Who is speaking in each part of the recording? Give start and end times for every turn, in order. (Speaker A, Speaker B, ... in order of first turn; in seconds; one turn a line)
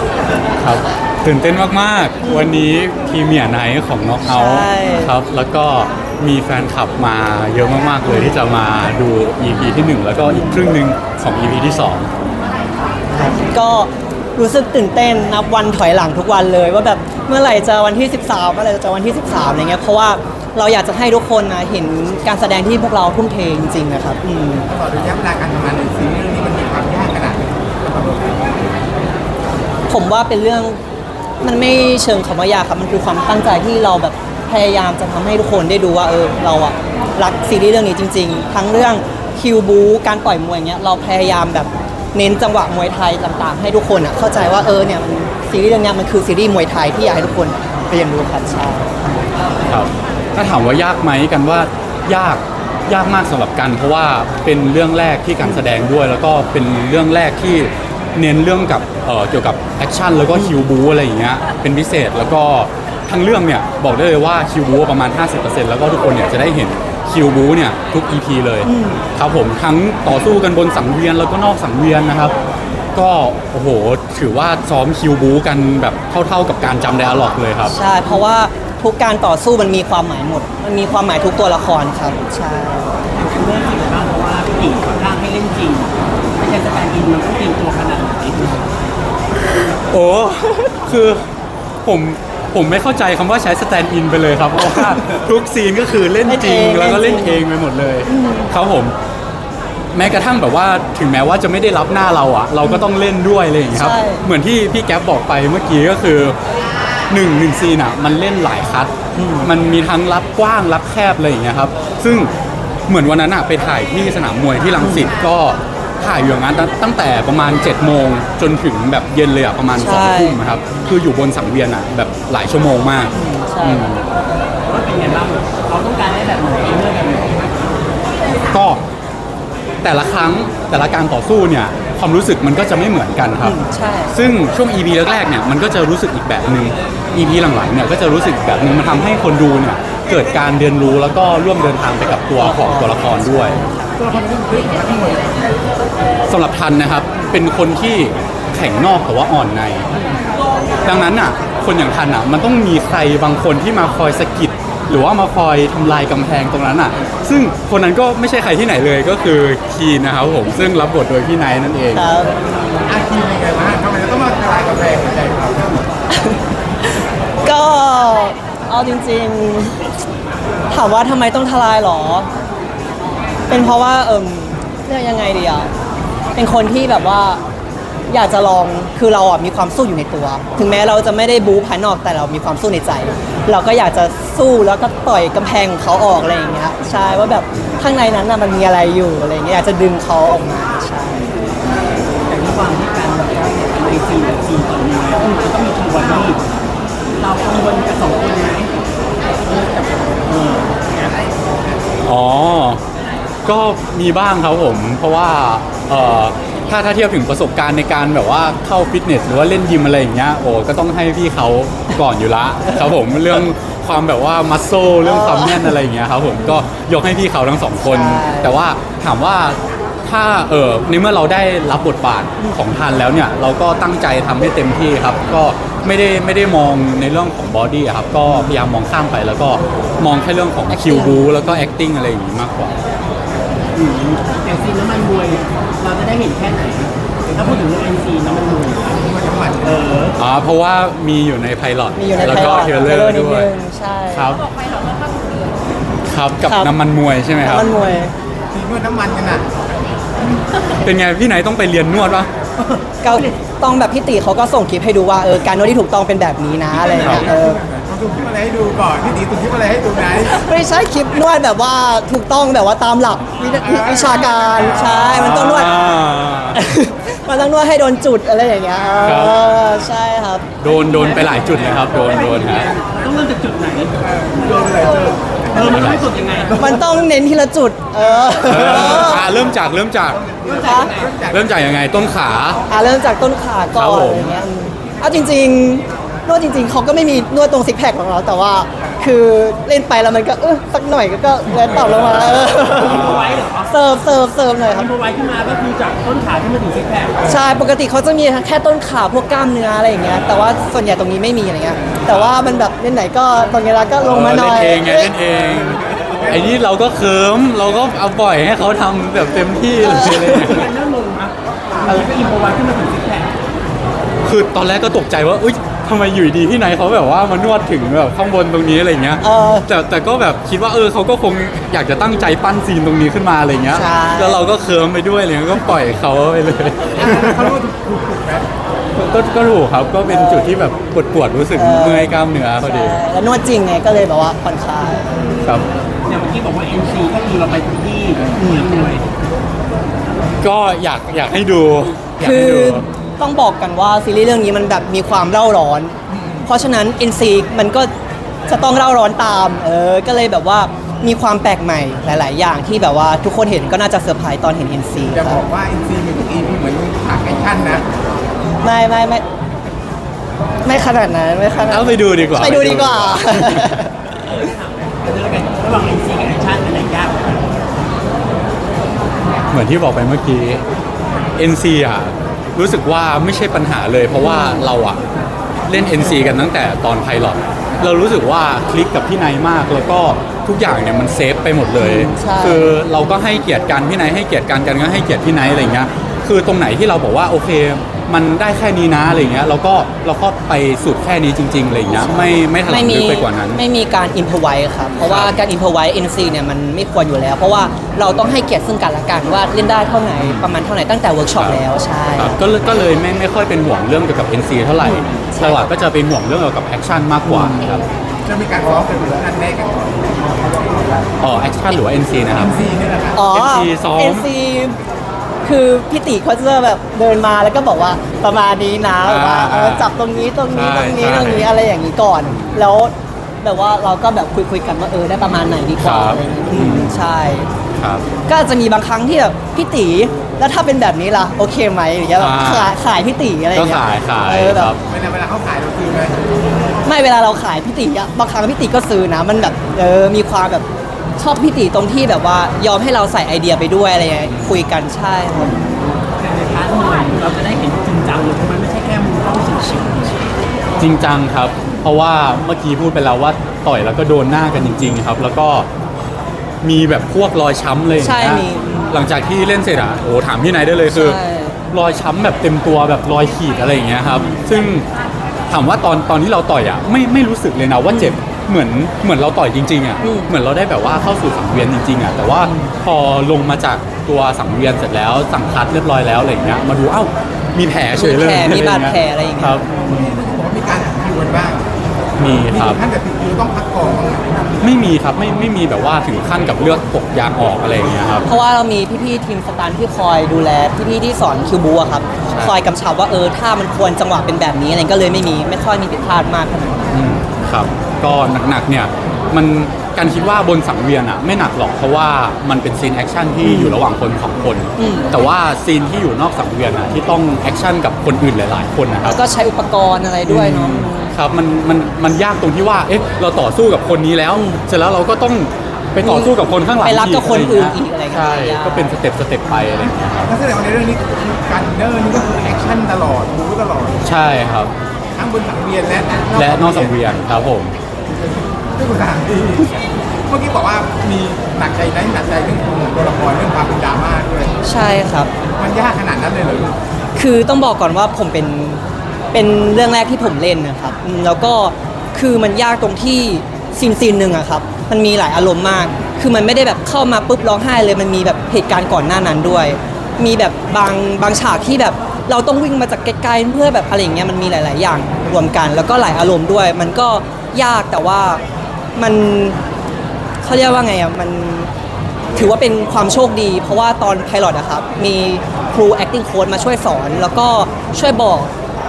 Speaker A: 0.6-12.1
Speaker B: 2.2-2.5
Speaker B: 4.3-5.1
Speaker B: 8.1-8.4
Speaker B: 10.2-10.6
Speaker B: 13.1-24.7
Speaker C: 24.7-28.7
Speaker B: 29.9-30.8
Speaker B: 31.4-48.9
Speaker A: 49.7-72.3
Speaker B: 68.6-69.0
Speaker A: 72.9-77.7
Speaker B: 77.7-83.0
Speaker D: 83.2-88.6
Speaker A: 89.9-91.3
Speaker A: 91.8-98.9
Speaker B: 96.2-97.4
Speaker B: 98.1-98.5
Speaker A: 99.9-106.3
Speaker B: 103.7-104.2
Speaker A: 107.1-112.3
Speaker B: 109.2-109.5
Speaker A: 112.9-124.0
Speaker B: 114.8-115.1
Speaker B: 119.8-120.4
Speaker B: 123.1-123.8
Speaker D: 124.7-127.7
Speaker A: 128.5-128.8
Speaker A: 129.8-133.6
Speaker B: 133.4-134.2
Speaker A: 134.1-143.6
Speaker B: 142.4-144.0
Speaker C: 144.0-145.5
Speaker A: 146.3-149.9
Speaker A: 150.8-162.1
Speaker B: 161.9-162.4
Speaker C: 162.9-165.8
Speaker B: 166.1-169.8
Speaker B: 170.7-172.3
Speaker B: 173.5-175.7
Speaker B: 176.3-177.4
Speaker B: 178.1-191.3
Speaker D: 192.3-196.4
Speaker D: 197.2-198.7
Speaker D: 199.4-201.2
Speaker A: 202.0-202.8
Speaker A: 203.4-232.8
Speaker B: 215.0-215.8
Speaker B: 217.8-218.5
Speaker B: 230.7-231.4
Speaker D: 233.7-239.0
Speaker C: 239.0-239.9
Speaker D: 239.6-240.2
Speaker A: 240.2-243.5
Speaker B: 241.9-244.3
Speaker A: 244.1-244.4
Speaker A: 246.1-247.7
Speaker B: 246.4-246.7
Speaker B: 247.4-248.1
Speaker C: 248.5-249.5
Speaker A: 250.8-252.3
Speaker B: 253.0-257.6
Speaker D: 256.7-257.4
Speaker C: 256.9-260.4
Speaker B: 260.3-265.8
Speaker C: 263.5-265.2
Speaker A: 264.7-266.6
Speaker B: 266.5-270.5
Speaker A: 269.0-269.4
Speaker A: 270.6-272.7
Speaker D: 270.8-276.6
Speaker C: 274.0-275.9
Speaker A: 275.6-276.1
Speaker C: 276.5-276.8
Speaker B: 276.6-279.3
Speaker C: 278.2-279.4
Speaker A: 278.4-280.2
Speaker C: 280.1-281.5
Speaker D: 280.4-281.2
Speaker B: 280.6-280.9
Speaker A: 281.3-282.6
Speaker B: 282.7-293.2
Speaker A: 283.7-284.4
Speaker A: 292.0-293.4
Speaker D: 292.6-293.7
Speaker B: 293.7-294.9
Speaker D: 294.6-297.3
Speaker B: 297.2-305.1
Speaker A: 302.1-302.3
Speaker A: 304.0-310.7
Speaker B: 309.8-310.6
Speaker D: 310.2-313.3
Speaker A: 314.2-327.5
Speaker B: 319.2-319.7
Speaker B: 323.7-324.5
Speaker C: 326.9-328.5
Speaker A: 328.9-333.0
Speaker B: 330.1-330.6
Speaker B: 331.5-335.4
Speaker D: 336.1-339.1
Speaker B: 338.4-338.7
Speaker A: 340.4-342.9
Speaker B: 342.2-347.9
Speaker C: 346.1-346.5
Speaker B: 348.4-355.4
Speaker C: 355.1-357.9
Speaker B: 358.6-359.2
Speaker B: 360.6-364.1
Speaker A: 361.7-363.8
Speaker D: 364.2-367.5
Speaker A: 369.5-370.6
Speaker A: 371.4-375.0
Speaker B: 374.2-374.7
Speaker A: 375.7-393.6
Speaker B: 381.8-382.8
Speaker B: 391.9-402.4
Speaker A: 395.0-395.4
Speaker A: 400.2-400.4
Speaker A: 401.4-401.6
Speaker A: 402.2-407.9
Speaker B: 404.8-405.7
Speaker C: 408.2-410.6
Speaker A: 411.2-412.6
Speaker C: 412.3-413.2
Speaker B: 413.1-414.8
Speaker A: 413.3-414.2
Speaker B: 415.4-427.5
Speaker A: 419.0-421.5
Speaker A: 422.3-422.7
Speaker A: 425.8-427.0
Speaker A: 427.8-428.1
Speaker B: 428.2-434.7
Speaker A: 432.2-432.7
Speaker A: 433.5-434.8
Speaker C: 434.9-436.2
Speaker B: 436.8-440.6
Speaker B: 441.2-445.6
Speaker A: 444.2-444.6
Speaker D: 445.4-450.2
Speaker A: 450.8-455.7
Speaker A: 456.6-461.2
Speaker B: 458.0-459.0
Speaker B: 460.9-461.6
Speaker A: 461.7-464.9
Speaker B: 464.0-464.5
Speaker A: 465.5-479.7
Speaker B: 467.9-468.1
Speaker B: 470.0-470.3
Speaker B: 472.4-472.7
Speaker B: 477.9-480.0
Speaker C: 479.8-481.7
Speaker A: 482.2-482.8
Speaker C: 482.5-484.4
Speaker A: 484.6-488.3
Speaker B: 488.2-496.9
Speaker A: 492.2-492.6
Speaker A: 496.9-509.2
Speaker B: 503.4-503.8
Speaker B: 504.8-505.1
Speaker B: 509.0-511.1
Speaker A: 510.3-520.3
Speaker B: 514.3-514.6
Speaker B: 516.0-518.9
Speaker C: 520.2-524.0
Speaker A: 524.0-524.7
Speaker C: 525.1-526.9
Speaker A: 526.4-527.8
Speaker C: 528.1-529.7
Speaker C: 530.3-534.5
Speaker B: 534.6-535.3
Speaker C: 535.6-536.8
Speaker B: 537.1-538.8
Speaker B: 539.3-558.4
Speaker B: 559.0-559.6
Speaker B: 560.4-561.7
Speaker B: 562.3-568.5